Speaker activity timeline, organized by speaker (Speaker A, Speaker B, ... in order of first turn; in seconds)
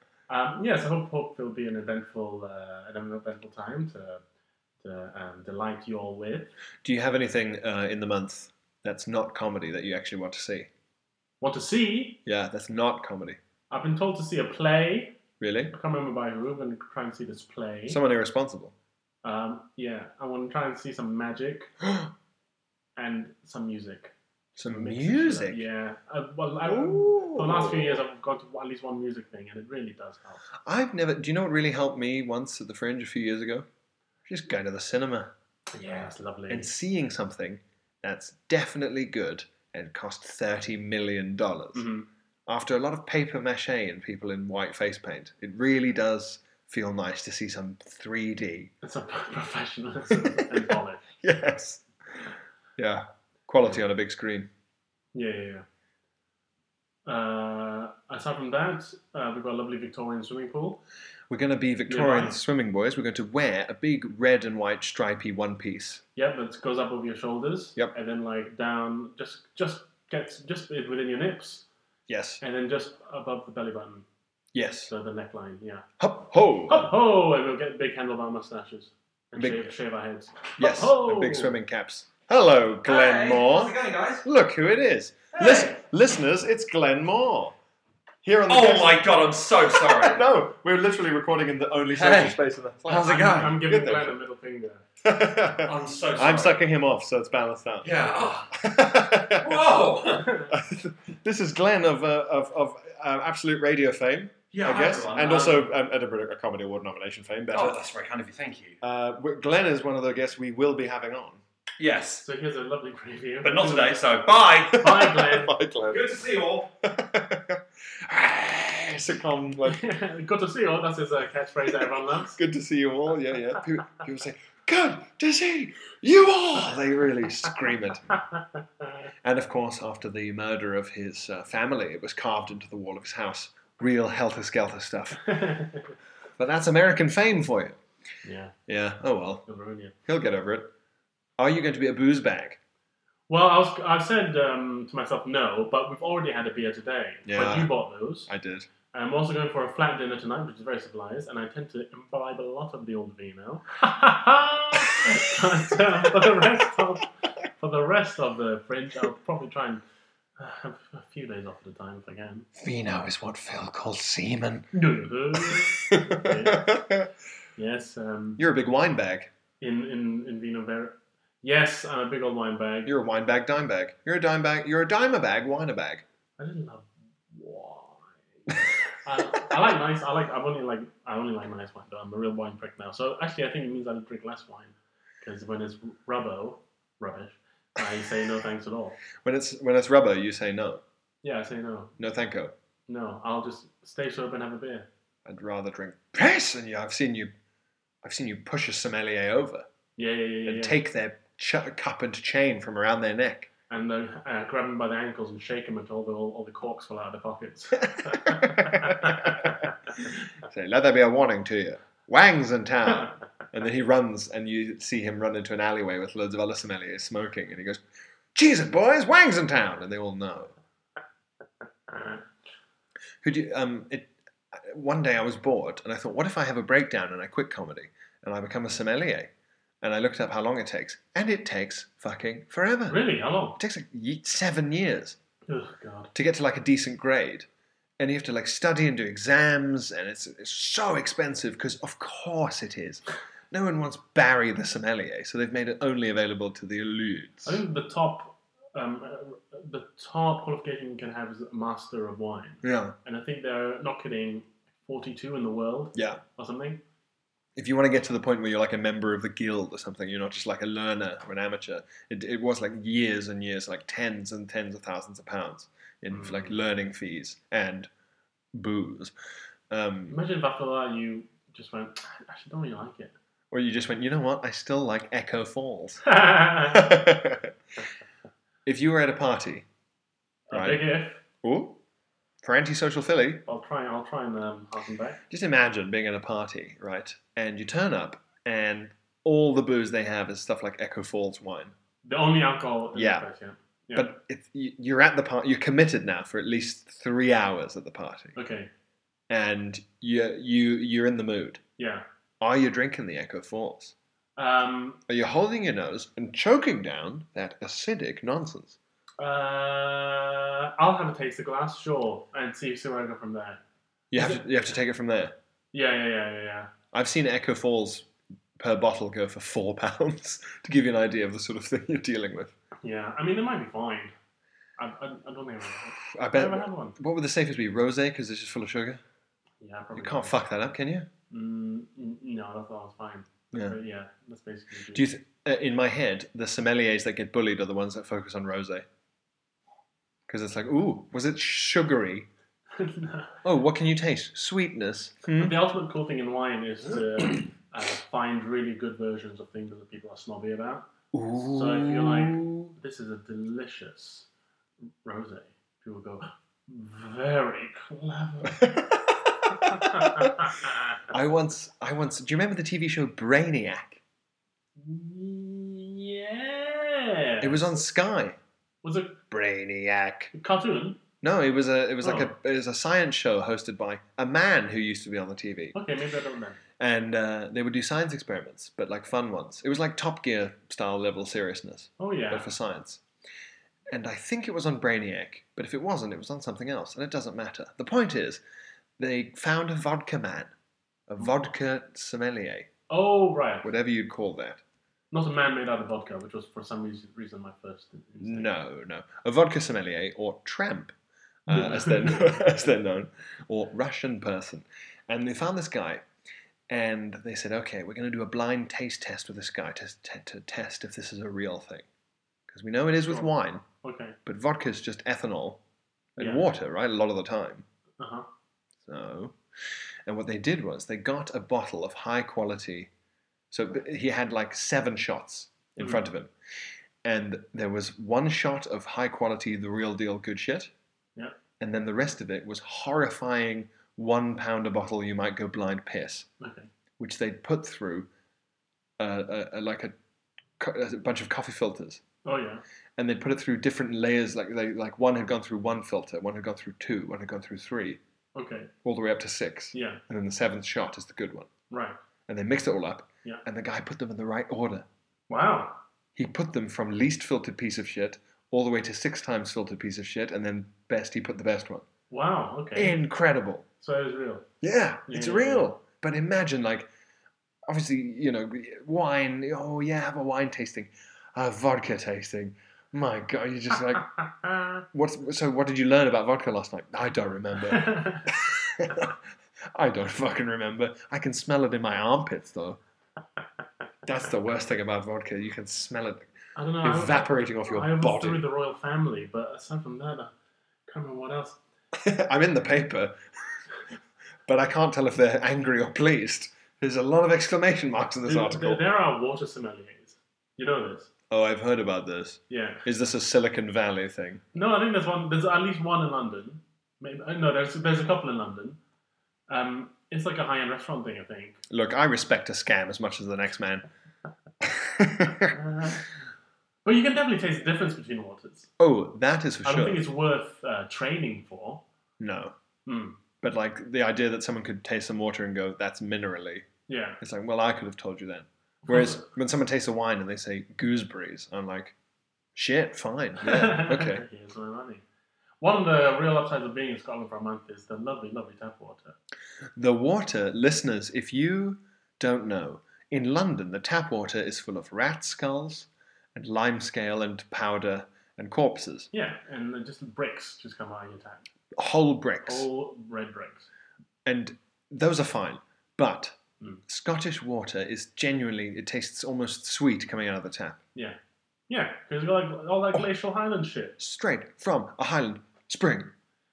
Speaker A: 0.3-4.2, 4.8-6.5, 11.4-12.2, 13.7-15.2, 15.7-18.0, 19.2-21.7, 23.0-24.1, 24.6-30.4, 35.7-36.7, 41.7-42.1, 48.8-51.0, 55.1-55.6, 57.0-60.8, 61.9-62.4, 66.2-71.7, 72.4-74.0, 74.9-75.8, 76.7-81.6, 92.9-94.8, 112.2-114.0, 114.8-115.5, 119.7-122.4, 135.3-135.9, 138.2-138.5, 139.5-139.9, 143.3-148.3, 148.9-159.8, 160.4-162.5, 164.7-166.8, 167.6-168.4, 169.6-172.9, 176.4-189.0, 191.2-191.9, 192.9-194.9, 200.0-200.8, 203.7-209.7, 221.9-222.2, 232.9-233.6, 235.5-236.1, 247.4-256.8, 266.1-266.6, 270.1-273.1, 276.1-276.9, 280.5-281.2, 283.4-285.2, 292.0-294.1, 298.4-298.7, 301.8-302.0, 304.4-305.0, 309.2-313.6, 314.1-314.4, 315.7-316.7, 322.8-324.1, 324.8-327.0, 329.6-330.4, 331.3-335.1, 342.7-343.4, 345.4-354.3, 355.0-358.7, 359.6-360.8, 364.8-367.7, 368.8-369.2, 370.3-371.0, 372.0-372.3, 375.7-376.6, 382.0-382.5, 392.9-393.7, 395.1-398.5, 401.5-402.4, 413.8-414.2, 416.2-416.4, 418.0-418.2, 425.8-426.0, 436.4-436.7, 442.2-442.6, 448.3-448.7, 449.7-450.0, 451.7-452.0, 455.3-455.8, 462.1-463.0, 463.8-464.5, 465.1-465.7, 477.7-478.3, 486.6-490.3, 490.9-491.6, 498.2-501.1, 502.5-502.8, 504.5-508.8, 509.5-511.6, 515.5-516.0, 516.8-518.7, 519.6-521.8, 522.9-523.2, 526.9-527.2, 528.9-529.3, 533.4-535.0, 535.6-539.1, 549.1-551.5, 552.4-553.7, 561.7-564.0
Speaker B: 6.8-10.7, 12.2-13.4, 15.4-15.7, 17.9-18.7, 21.8-22.1, 24.6-25.6, 26.6-28.0, 30.6-33.7, 34.2-35.3, 36.5-41.9, 42.5-48.7, 50.1-54.5, 61.3-66.0, 72.1-72.4, 74.5-74.9, 76.0-76.9, 79.3-79.7, 80.6-87.5, 88.2-94.2, 95.0-99.7, 100.5-107.8, 108.8-111.4, 114.7-116.1, 116.8-119.8, 122.3-128.1, 129.2-135.2, 136.4-137.8, 138.7-139.5, 140.1-140.7, 141.4-142.6, 147.2-147.7, 148.2-148.7, 162.6-164.7, 165.3-167.1, 168.4-169.3, 172.8-176.0, 189.2-190.8, 192.0-192.5, 195.2-197.3, 198.0-199.7, 200.4-203.5, 208.0-209.5, 210.4-217.8, 218.3-220.5, 223.2-229.3, 229.8-235.2, 236.1-237.5, 238.0-247.6, 252.6-252.9, 255.9-256.2, 257.6-267.9, 268.5-269.1, 269.7-270.1, 273.5-277.5, 278.6-279.6, 280.5-281.8, 282.4-283.4, 285.3-291.7, 292.9-293.2, 293.9-298.4, 299.3-301.6, 302.4-303.9, 305.1-308.8, 314.1-315.4, 316.9-322.5, 326.1-329.0, 329.9-331.1, 333.5-333.8, 334.9-338.9, 340.3-342.3, 343.4-345.6, 351.1-352.7, 358.5-360.3, 361.1-364.0, 367.4-368.4, 369.3-370.3, 371.2-375.8, 376.8-383.0, 383.9-388.4, 389.0-390.5, 391.1-392.7, 393.6-394.6, 398.2-400.9, 401.5-406.1, 406.7-411.9, 412.5-413.6, 414.2-415.6, 416.1-417.6, 418.8-419.4, 420.1-422.9, 423.5-426.3, 427.0-430.7, 431.6-436.3, 437.0-438.1, 439.0-439.9, 440.6-442.0, 443.0-448.0, 448.8-451.5, 452.3-454.9, 456.1-461.8, 462.8-463.6, 464.6-466.9, 467.7-474.1, 474.9-479.2, 479.7-482.8, 484.0-486.3, 486.8-488.4, 491.9-493.2, 494.5-498.8, 501.3-504.4, 511.7-513.8, 514.6-515.5, 518.8-520.0, 522.2-522.5, 523.4-526.7, 527.2-532.0, 532.5-534.2, 539.8-549.1, 551.8-552.7, 554.2-560.8, 564.0-566.1
Speaker C: 82.8-84.2, 85.3-85.8, 88.5-90.2, 91.9-93.6, 95.6-96.6, 97.8-100.4, 104.5-105.7, 107.5-108.8, 111.8-112.2, 113.4-115.0, 115.8-116.7